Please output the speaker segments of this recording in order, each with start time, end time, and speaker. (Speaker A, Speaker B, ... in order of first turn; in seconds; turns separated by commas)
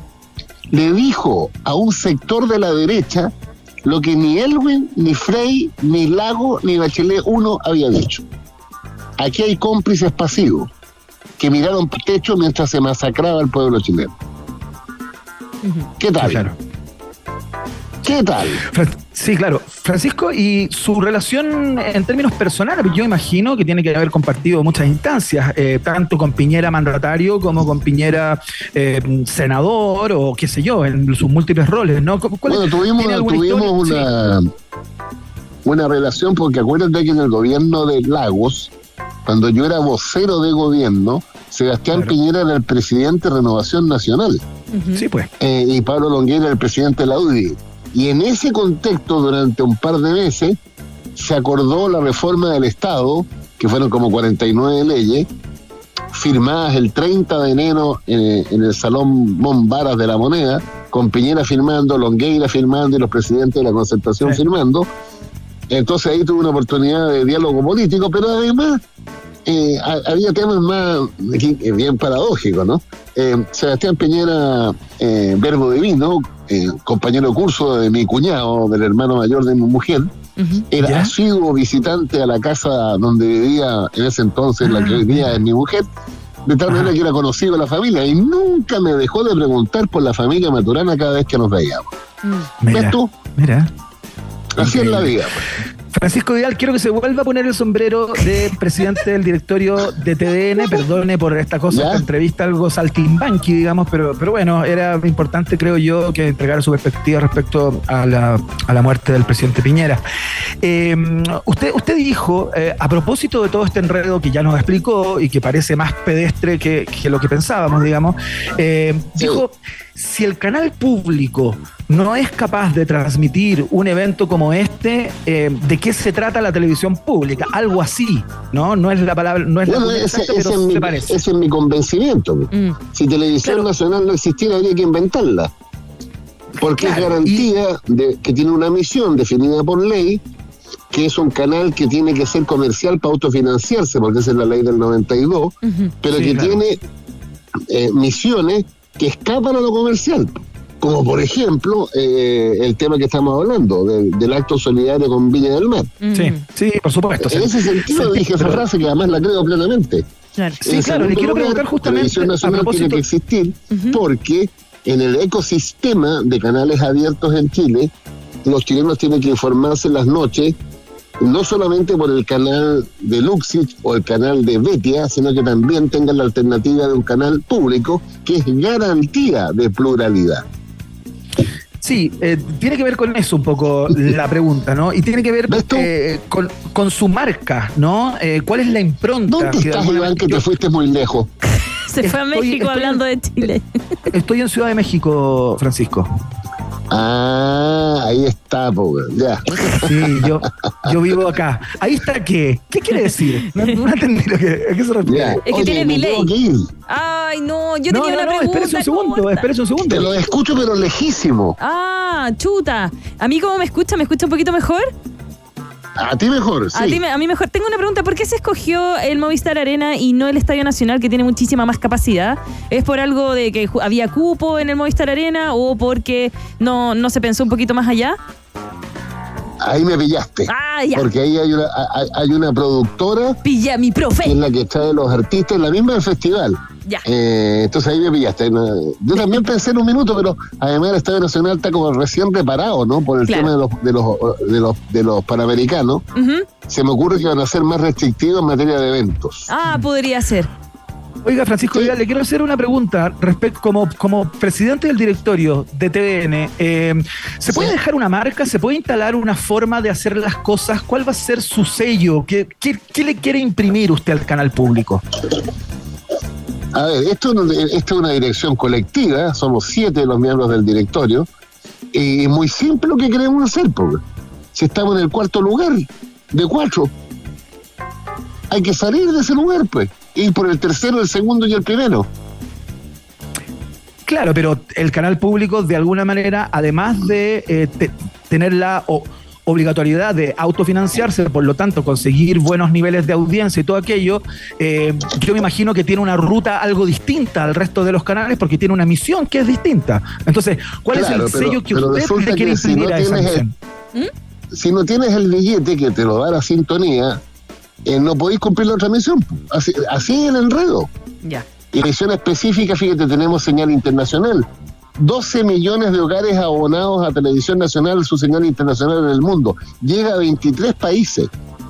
Speaker A: 0.7-3.3, Speaker A: 3.8-8.2, Speaker A: 9.2-10.7, Speaker A: 11.4-14.1, Speaker A: 16.0-16.5, Speaker B: 16.2-16.5, Speaker A: 18.0-18.6, Speaker B: 18.7-34.1, Speaker A: 32.5-34.5, Speaker A: 35.6-38.7, Speaker A: 39.2-44.4, Speaker C: 44.7-45.0, Speaker B: 44.9-45.3, Speaker A: 45.4-50.6, Speaker A: 51.1-55.3, Speaker A: 56.1-64.9, Speaker A: 65.7-68.8, Speaker A: 69.5-80.1, Speaker C: 80.4-80.6, Speaker A: 80.7-85.8, Speaker B: 80.8-81.1, Speaker B: 84.6-85.0, Speaker A: 86.5-91.9, Speaker C: 92.2-92.5, Speaker B: 92.6-93.7, Speaker A: 92.7-93.1, Speaker A: 94.6-95.4, Speaker B: 94.6-95.1, Speaker B: 95.9-110.0, Speaker A: 101.7-102.0, Speaker B: 110.6-131.2, Speaker A: 119.2-119.4, Speaker A: 129.7-135.5, Speaker C: 132.5-132.8, Speaker A: 136.6-140.2, Speaker B: 136.8-137.5, Speaker A: 140.9-146.8, Speaker C: 145.6-145.9, Speaker B: 146.1-146.6, Speaker A: 147.7-155.9, Speaker C: 156.0-156.4, Speaker B: 156.1-158.6, Speaker A: 157.2-160.1, Speaker A: 160.6-167.9, Speaker B: 160.6-163.0, Speaker C: 163.7-164.0, Speaker A: 168.4-170.6, Speaker A: 171.2-180.4, Speaker B: 181.8-190.5, Speaker A: 185.5-185.9, Speaker A: 189.3-191.3, Speaker C: 191.9-193.6, Speaker B: 192.0-193.0, Speaker B: 194.1-196.1, Speaker A: 196.9-200.3, Speaker B: 199.7-205.4, Speaker A: 205.1-206.7, Speaker C: 205.4-206.3, Speaker C: 206.9-209.5, Speaker B: 207.9-210.1, Speaker A: 209.8-211.6, Speaker C: 211.6-214.9, Speaker A: 216.0-217.0, Speaker C: 216.7-228.2, Speaker A: 229.6-233.4, Speaker C: 230.5-231.1, Speaker C: 233.4-234.4, Speaker A: 234.2-246.0, Speaker C: 243.2-243.5, Speaker C: 246.1-246.4, Speaker A: 246.7-249.5, Speaker C: 249.5-250.5, Speaker B: 251.2-265.0, Speaker A: 266.7-271.3, Speaker A: 271.9-274.0, Speaker A: 274.5-276.9, Speaker A: 278.5-282.1, Speaker B: 284.1-303.5, Speaker A: 300.9-303.4, Speaker A: 304.5-307.2, Speaker A: 307.8-310.9, Speaker A: 311.7-321.3